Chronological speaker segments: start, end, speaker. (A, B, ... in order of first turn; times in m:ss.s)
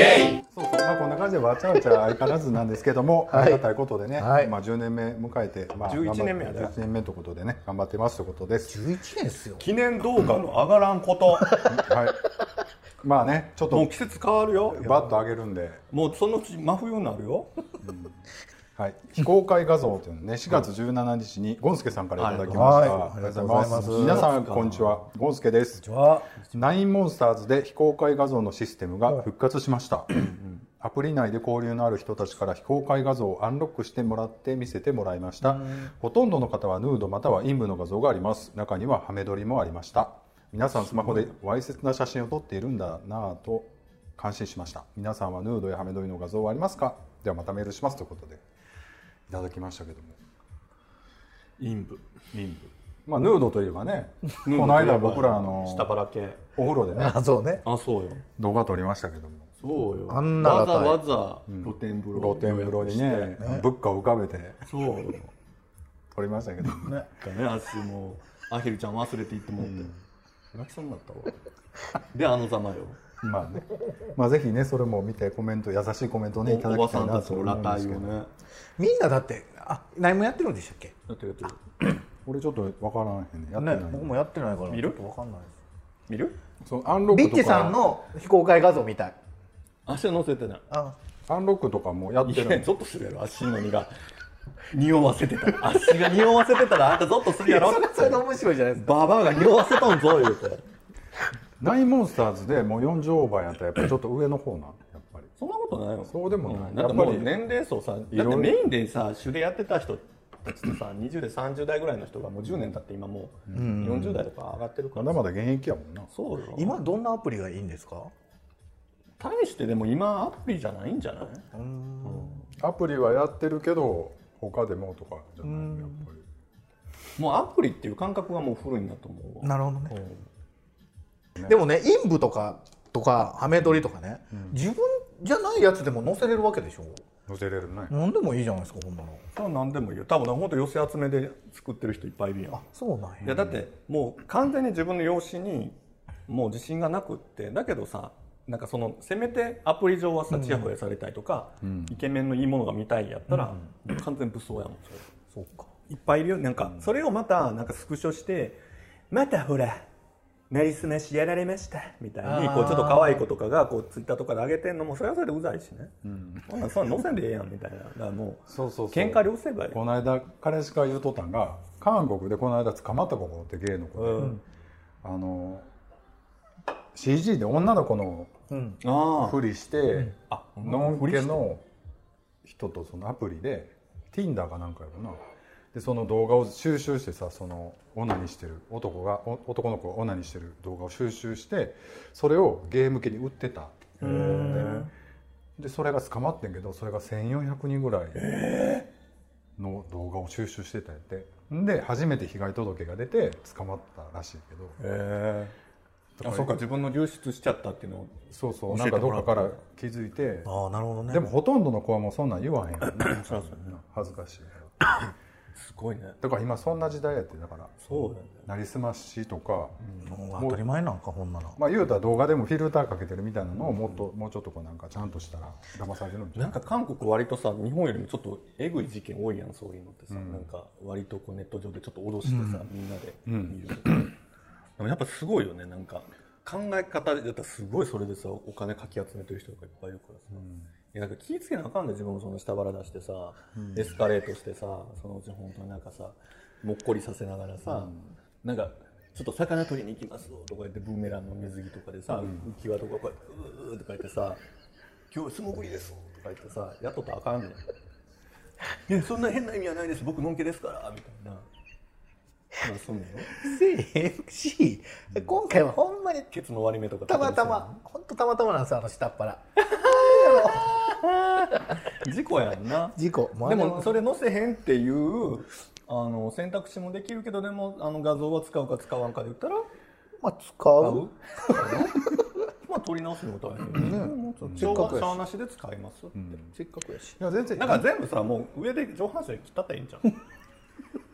0:00.4-0:08.8 A
0:03.3-0:03.6 B
0:04.2-0:04.5 B
0:05.8-0:06.8 C
0:08.7-0:09.7 B
0:09.6-0:11.6 C
0:11.6-0:12.2 A
0:13.0-0:13.9 A
0:13.7-0:15.2 C
0:14.7-0:15.8 A
0:15.9-0:17.5 C
0:17.8-0:18.2 A
0:18.8-0:25.9 A
0:22.2-0:23.0 C
0:22.5-0:24.3 B
0:23.6-0:25.0 C
0:25.8-0:26.3 B
0:26.4-0:30.1 A
0:30.3-0:30.6 C
0:30.8-0:48.4 A
0:49.3-0:50.2 A
0:51.6-0:52.0 C
0:52.3-0:56.0 A
0:54.4-0:56.4 C
0:56.6-0:57.2 A
0:56.9-0:57.6 B
0:57.6-0:58.2 C
0:58.4-0:59.5 A
0:59.6-1:03.4 C
1:00.1-1:01.0 B
1:01.5-1:04.6 A
1:04.7-1:05.3 C
1:06.1-1:07.0 A
1:07.1-1:10.0 C
1:09.6-1:09.9 A
1:10.5-1:11.4 C
1:12.0-1:13.0 C
1:13.2-1:18.2 A
1:16.4-1:18.3 C
1:18.8-1:20.9 B
1:21.1-1:21.6 C
1:22.3-1:24.2 A
1:23.6-1:25.6 B
1:24.7-1:25.0 C
1:26.1-1:26.4 C
1:26.6-1:27.8 A
1:27.1-1:29.2 B
1:29.9-1:30.6 C
1:30.7-1:31.0 B
1:31.3-1:32.7 A
1:32.2-1:33.9 C
1:34.7-1:40.6 C
1:37.4-1:39.1 B
1:41.6-1:45.3 A
1:45.4-1:55.2 C
1:46.1-1:47.4 A
1:48.1-1:48.6 A
1:53.5-1:54.0 A
1:53.5-1:54.2 B
1:54.9-1:56.1 A
1:56.1-1:56.8 C
1:56.5-1:58.1 B
1:59.2-2:01.5 C
2:01.5-2:02.4 B
2:02.0-2:02.5 C
2:02.6-2:06.3 A
2:05.4-2:06.0 B
2:07.2-2:09.6 C
2:09.4-2:10.1 B
2:11.4-2:17.0 B
2:14.3-2:14.6 A
2:17.3-2:18.0 A
2:17.9-2:19.2 B
2:19.3-2:22.6 C
2:22.5-2:23.3 B
2:23.2-2:25.8 C
2:23.2-2:23.6 A
2:26.3-2:35.2 C
2:30.3-2:30.7 B
2:31.6-2:32.0 A
2:35.4-2:35.6 B
2:35.8-2:38.6 C
2:39.1-2:39.8 C
2:40.5-2:45.9 C
2:42.2-2:43.2 B
2:46.0-2:46.6 A
2:46.5-2:49.8 C
2:48.5-2:54.4 A
2:54.0-2:54.4 C
2:55.0-2:55.7 A
2:56.9-2:58.3 A
2:58.5-2:58.8 B
2:58.8-2:59.4 C
2:59.2-3:01.6 A
3:00.2-3:01.4 C
3:02.4-3:05.2 A
3:05.7-3:14.9 A
3:14.0-3:14.8 B
3:14.0-3:14.9 C
3:15.6-3:18.2 A
3:18.2-3:18.9 C
3:19.6-3:24.8 A
3:24.8-3:25.5 C
3:26.2-3:26.6 A
3:26.2-3:29.6 C
3:28.3-3:30.5 A
3:30.5-3:31.2 B
3:31.1-3:34.8 A
3:33.0-3:33.7 C
3:35.6-3:36.2 C
3:36.2-3:39.8 A
3:37.8-3:38.4 C
3:40.0-3:41.6 B
3:41.6-3:46.6 A
3:46.4-3:54.2 C
3:50.1-3:50.5 A
3:53.3-3:53.6 A
3:54.8-4:14.4 C
4:00.4-4:00.7 A
4:03.6-4:04.0 A
4:15.1-4:17.7 C
4:18.9-4:21.5 C
4:22.6-4:23.4 C
4:23.4-4:26.3 B
4:26.3-4:27.8 C
4:27.1-4:30.8 B
4:29.6-4:39.7 C
4:32.9-4:34.0 B
4:40.2-4:41.1 B
4:40.8-4:42.1 C
4:42.6-4:46.4 C
4:43.8-4:45.2 B
4:44.4-4:44.9 A
4:46.2-4:46.5 A
4:46.6-4:47.2 B
4:47.2-4:47.9 A
4:47.6-4:50.1 C